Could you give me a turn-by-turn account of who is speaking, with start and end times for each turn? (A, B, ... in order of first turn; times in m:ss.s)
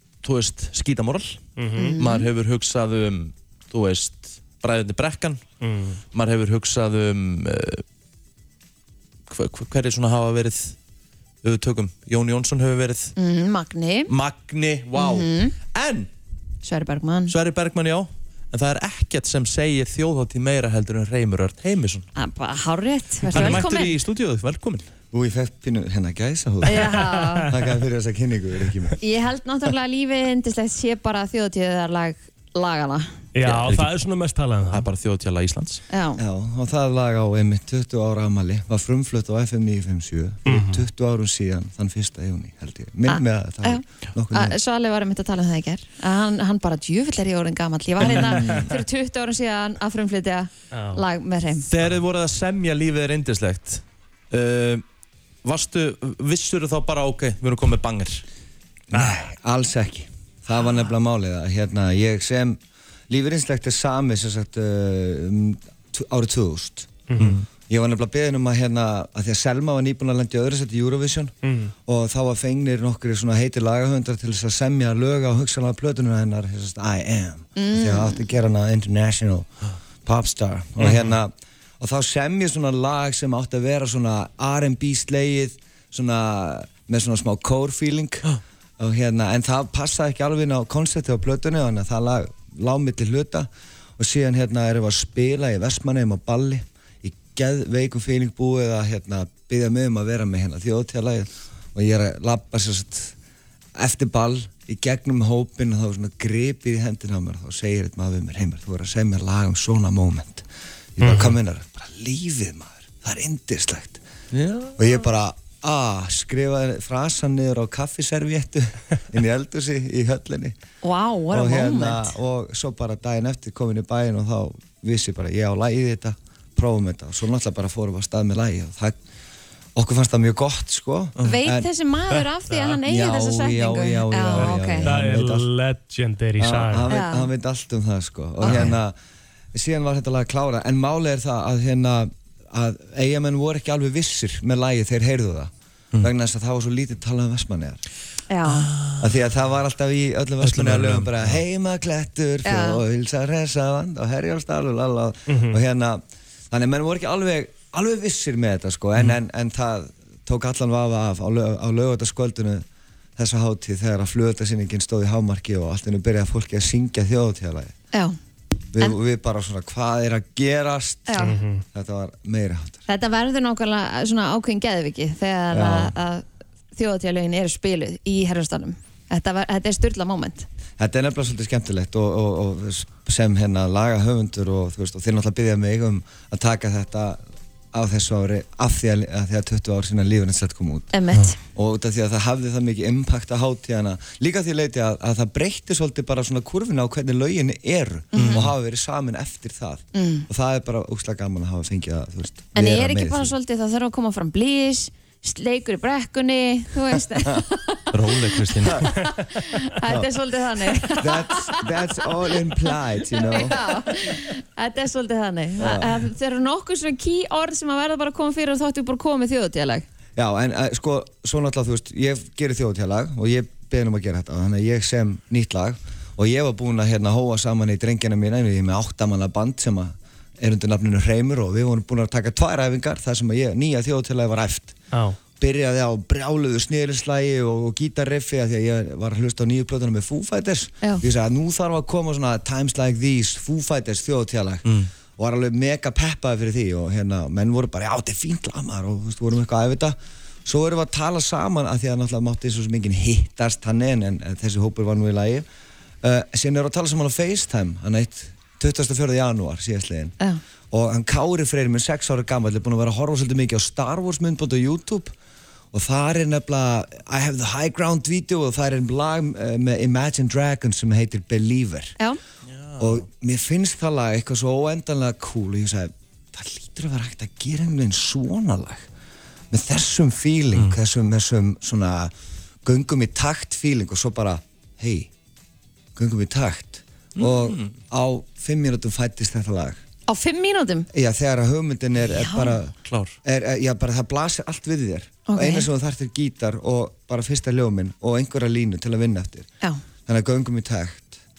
0:00.2-0:01.4 A
0:01.6-0:01.9 B
0:01.7-0:02.3 C
0:02.0-0:05.4 A
0:05.6-0:06.0 B
0:06.1-0:07.8 A
0:09.3-0:10.8 A
0:11.4-0:13.1 A
0:13.2-0:14.1 C
0:14.1-0:16.1 A
0:15.0-0:15.6 C
0:16.6-0:17.4 C
0:17.3-0:22.1 A
0:22.2-0:24.0 C
0:23.3-0:24.9 A
0:25.1-0:29.0 D
0:26.6-0:27.5 C
0:26.9-0:27.5 B
0:29.0-0:33.2 C
0:33.3-0:34.8 B
0:33.4-0:33.9 A
0:34.7-0:35.8 A
0:35.9-0:36.2 C
0:36.2-0:44.6 D
0:40.5-0:40.8 B
0:43.1-0:51.7 C
0:48.0-0:48.7 B
0:48.1-0:48.6 A
0:50.7-0:51.0 B
0:51.7-0:54.8 A
0:55.4-0:58.2 A
0:58.9-1:02.6 D
0:58.9-0:59.3 B
1:03.1-1:07.0 D
1:07.1-1:07.4 B
1:07.2-1:07.5 A
1:07.7-1:11.3 D
1:11.4-1:11.7 B
1:11.9-1:19.5 D
1:17.6-1:18.2 C
1:20.0-1:28.3 D
1:28.8-1:43.1 D
1:43.8-1:50.4 D
1:51.0-1:54.0 D
1:51.0-1:51.3 B
1:54.3-1:54.8 A
1:54.8-2:00.6 D
2:00.8-2:02.2 C
2:01.3-2:09.0 D
2:09.8-2:11.7 D
2:11.2-2:14.9 C
2:12.2-2:12.6 B
2:12.8-2:15.5 D
2:14.4-2:16.9 B
2:16.4-2:19.0 D
2:16.9-2:17.3 C
2:18.4-2:18.8 C
2:19.5-2:27.8 D
2:28.3-2:28.7 C
2:28.6-2:29.1 A
2:29.0-2:42.6 D
2:30.4-2:31.4 A
2:32.4-2:32.8 C
2:35.3-2:35.6 B
2:43.2-2:47.7 D
2:48.7-2:52.8 D
2:51.1-2:51.4 C
2:51.2-2:51.6 B
2:52.9-3:00.5 C
2:55.5-2:55.9 D
3:00.8-3:07.2 D
3:07.7-3:10.9 D
3:10.9-3:11.4 C
3:11.5-3:23.3 D
3:18.1-3:18.4 C
3:18.1-3:18.5 A
3:19.9-3:20.3 C
3:22.5-3:32.0 C
3:27.9-3:28.8 A
3:29.9-3:30.1 D
3:31.0-3:33.7 D
3:33.2-3:39.9 C
3:35.6-3:36.0 D
3:40.2-3:54.8 D
3:55.4-4:15.5 D
4:16.0-4:20.2 D
4:20.7-4:25.1 D
4:25.7-4:32.0 D
4:32.5-4:33.1 A
4:32.8-4:38.8 D
4:39.5-4:42.1 D
4:42.6-4:45.1 D
4:46.0-4:49.8 D
4:47.2-4:47.7 A
4:50.1-4:50.9 C
4:50.9-4:59.5 D
4:52.2-4:52.6 C
4:52.8-4:53.2 A
4:55.3-4:55.7 C
5:00.1-5:01.2 D